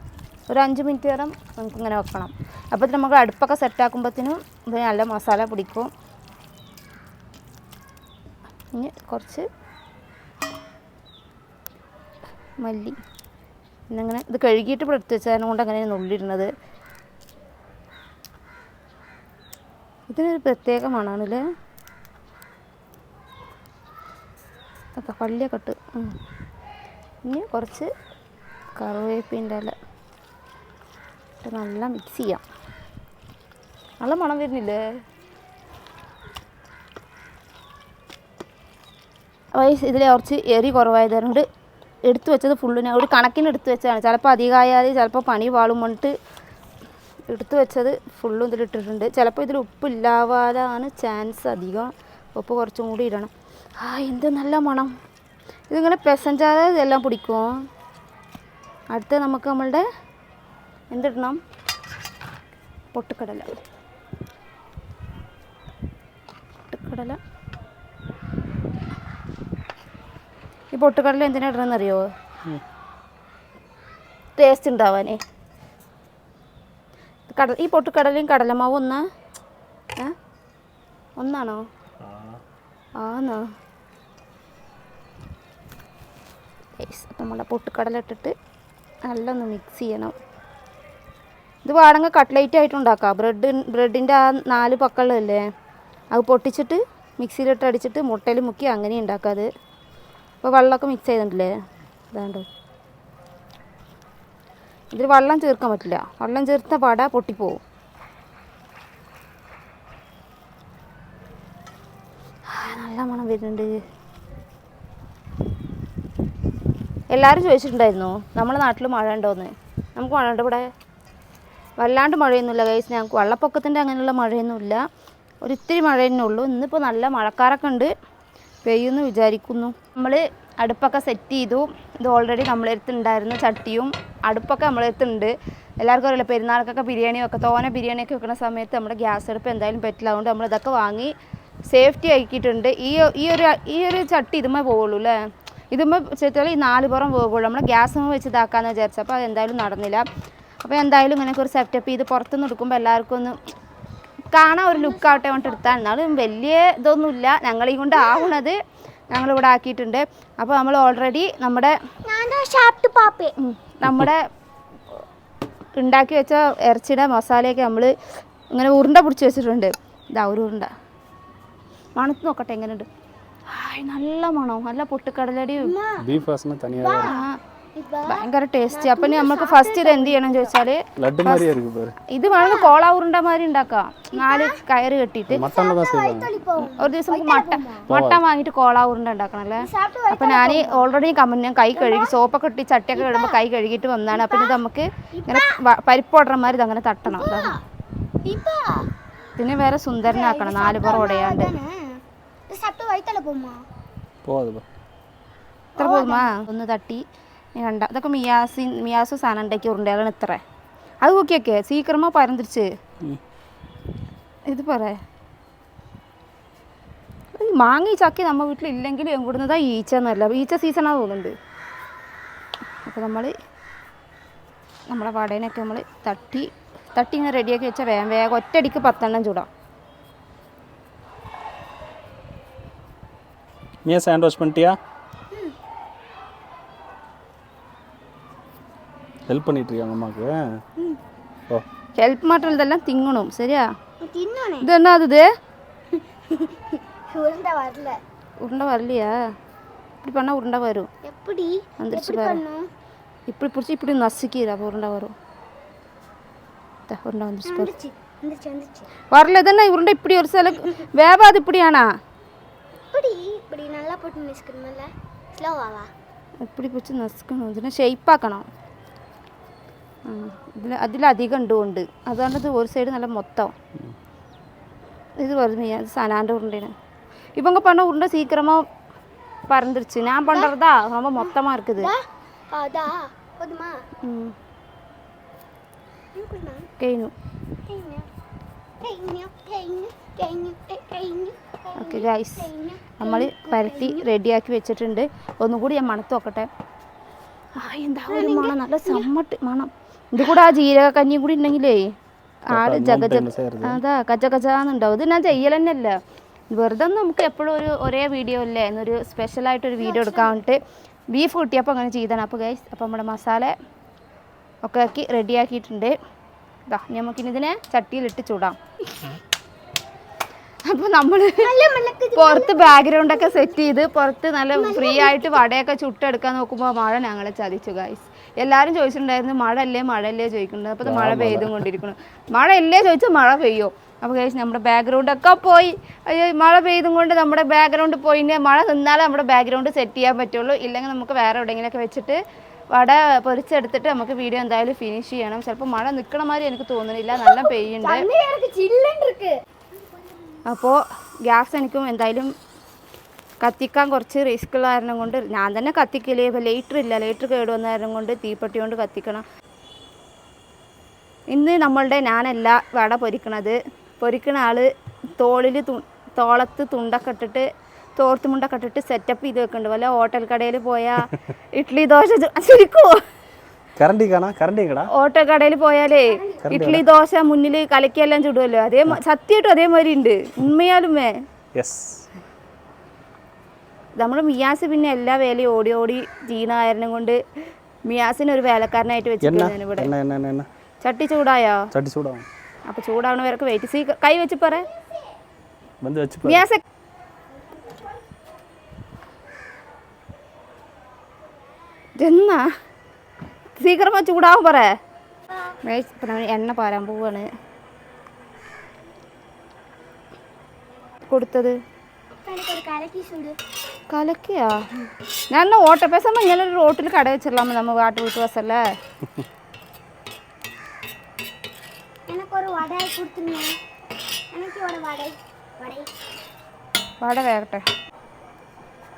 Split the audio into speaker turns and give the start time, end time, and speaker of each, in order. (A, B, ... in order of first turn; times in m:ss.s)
0:00.5-0:05.9 A
0:08.8-0:09.5 A
0:12.6-0:13.0 A
0:13.9-0:16.5 A
0:20.1-0:21.4 A
0:25.0-0:26.2 A
0:27.2-0:27.9 A
0:28.8-0:29.8 A
0:31.4-0:32.4 A
0:34.0-0:34.8 A
0:39.6-0:41.4 A
0:42.1-0:46.1 A
0:47.3-0:54.9 A
0:55.7-0:57.6 A
0:58.9-0:59.8 A
1:00.9-1:01.4 A
1:02.9-1:03.6 A
1:06.7-1:07.2 A
1:10.7-1:12.1 A
1:14.4-1:15.2 A
1:17.3-1:19.0 A
1:21.2-1:21.6 A
1:22.0-1:22.4 B
1:23.0-1:23.4 A
1:26.8-1:28.3 A
1:29.1-1:30.2 A
1:31.6-1:35.4 A
1:36.1-1:39.5 A
1:40.4-1:41.5 A
1:42.1-1:42.5 A
1:44.9-1:47.6 A
1:52.5-1:53.7 A
1:57.1-2:00.7 A
2:01.8-2:04.8 A
2:05.4-2:07.9 A
2:08.6-2:21.1 A
2:21.7-2:25.2 A
2:25.7-2:30.0 A
2:30.6-2:33.4 A
2:34.3-2:38.6 A
2:34.7-2:35.7 C
2:38.0-2:38.4 C
2:39.1-2:41.8 A
2:42.1-2:43.3 C
2:43.4-2:44.2 A
2:45.8-2:47.9 A
2:48.5-2:50.7 A
2:52.0-2:52.9 A
2:53.5-2:55.7 A
2:55.6-2:56.1 C
2:56.0-2:57.1 B
2:56.7-3:00.5 C
2:57.0-2:57.4 A
2:58.1-3:01.6 A
3:01.0-3:02.0 B
3:02.1-3:05.5 A
3:02.2-3:02.7 C
3:04.1-3:04.6 C
3:05.3-3:06.3 B
3:05.4-3:07.9 C
3:06.8-3:17.5 A
3:07.9-3:08.2 B
3:09.6-3:11.0 C
3:11.8-3:12.2 C
3:13.0-3:13.4 C
3:14.1-3:14.6 C
3:15.1-3:15.6 C
3:17.1-3:17.6 C
3:18.2-3:18.9 C
3:19.4-3:21.5 A
3:20.0-3:23.7 C
3:24.2-3:24.7 B
3:25.8-3:26.4 C
3:25.8-3:27.0 A
3:27.6-3:30.4 A
3:31.0-3:32.7 A
3:34.5-3:35.0 A
3:37.4-3:41.3 A
3:42.8-3:43.3 A
3:44.9-3:49.5 A
3:53.8-3:54.8 B
3:59.3-4:00.4 B
4:02.0-4:03.7 A
4:04.0-4:04.7 C
4:04.6-4:05.2 A
4:06.0-4:08.0 C
4:08.4-4:09.2 A
4:10.0-4:10.9 A
4:11.0-4:12.7 C
4:11.8-4:12.4 A
4:13.3-4:15.1 A
4:16.9-4:17.7 A
4:17.5-4:18.9 C
4:19.1-4:21.9 A
4:22.9-4:25.9 C
4:26.4-4:28.5 A
4:30.1-4:33.5 A
4:35.2-4:36.7 A
4:37.4-4:38.6 A
4:39.5-4:41.9 A
4:41.2-4:43.9 C
4:44.0-4:44.3 A
4:46.1-4:46.7 C
4:46.8-4:47.1 A
4:47.6-4:48.1 C
4:48.8-4:54.1 C
4:51.8-4:52.5 A
4:53.0-4:56.5 A
4:57.6-5:01.9 A
4:58.1-4:59.1 C
5:02.5-5:06.0 A
5:02.5-5:03.8 B
5:06.5-5:10.6 A
5:09.8-5:10.4 C
5:11.1-5:13.6 A
5:14.6-5:16.0 A
5:16.7-5:18.6 A
5:20.7-5:21.5 A
5:21.4-5:23.5 C
5:22.2-5:42.2 A
5:24.6-5:25.4 C
5:30.8-5:31.5 B
5:42.7-5:48.1 A
5:47.2-5:49.4 C
5:50.5-5:52.3 A
5:53.4-5:59.2 A
6:01.3-6:07.4 A
6:08.0-6:13.0 A
6:13.8-6:14.9 B
6:14.9-6:21.2 A
6:16.4-6:16.8 B
6:21.6-6:22.1 B
6:24.0-6:27.2 A
6:27.9-6:29.9 A
6:29.2-6:30.5 B
6:30.8-6:31.7 A
6:31.7-6:32.3 B
6:32.7-6:34.7 A
6:35.8-6:36.4 B
6:36.2-6:36.6 A
6:42.0-6:42.5 A
6:43.6-6:44.7 A
6:45.6-6:47.3 A
6:51.1-6:51.6 A
6:52.2-6:53.4 C
6:53.9-6:54.6 A
6:55.3-6:58.6 A
7:02.1-7:03.6 C
7:04.3-7:05.9 C
7:07.0-7:07.6 A